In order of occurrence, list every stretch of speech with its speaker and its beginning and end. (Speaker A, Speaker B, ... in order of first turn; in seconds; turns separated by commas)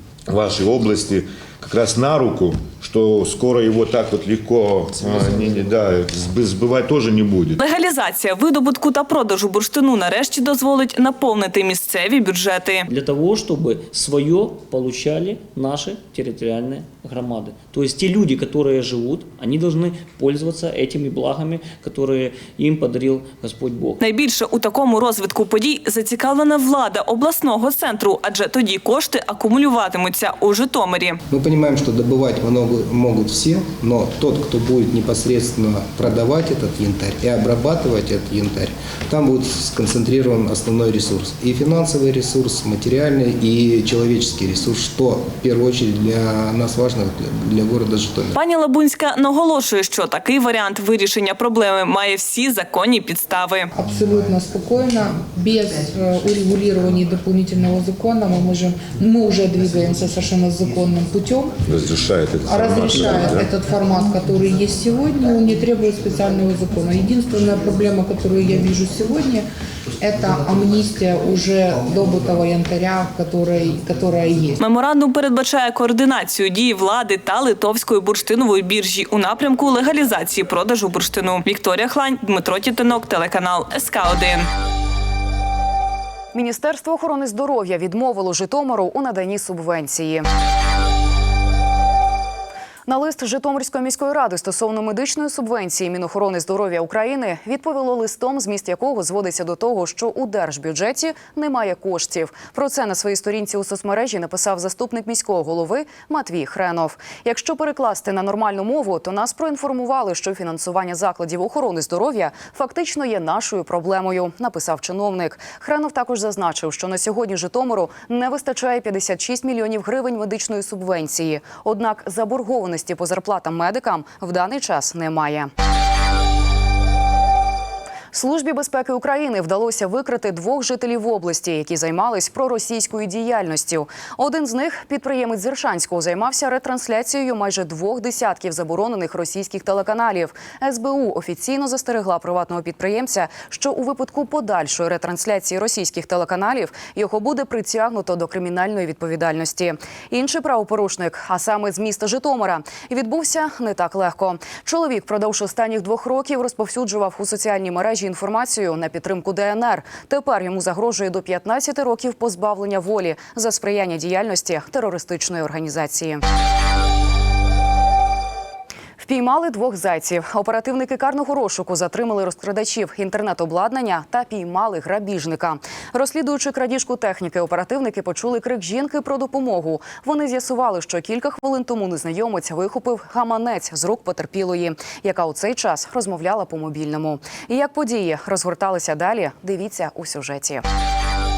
Speaker A: 0.3-7.6, Speaker B: 7.6-12.9, Speaker C: 12.9-24.0, Speaker B: 24.0-31.2, Speaker D: 31.3-48.3, Speaker B: 48.3-53.7, Speaker E: 53.7-61.5, Speaker A: 61.7-63.5, Speaker E: 62.5-69.5, Speaker E: 70.0-74.6, Speaker B: 74.6-84.5, Speaker F: 86.3-90.3, Speaker F: 92.9-125.5, Speaker F: 128.1-166.2, Speaker F: 169.0-190.6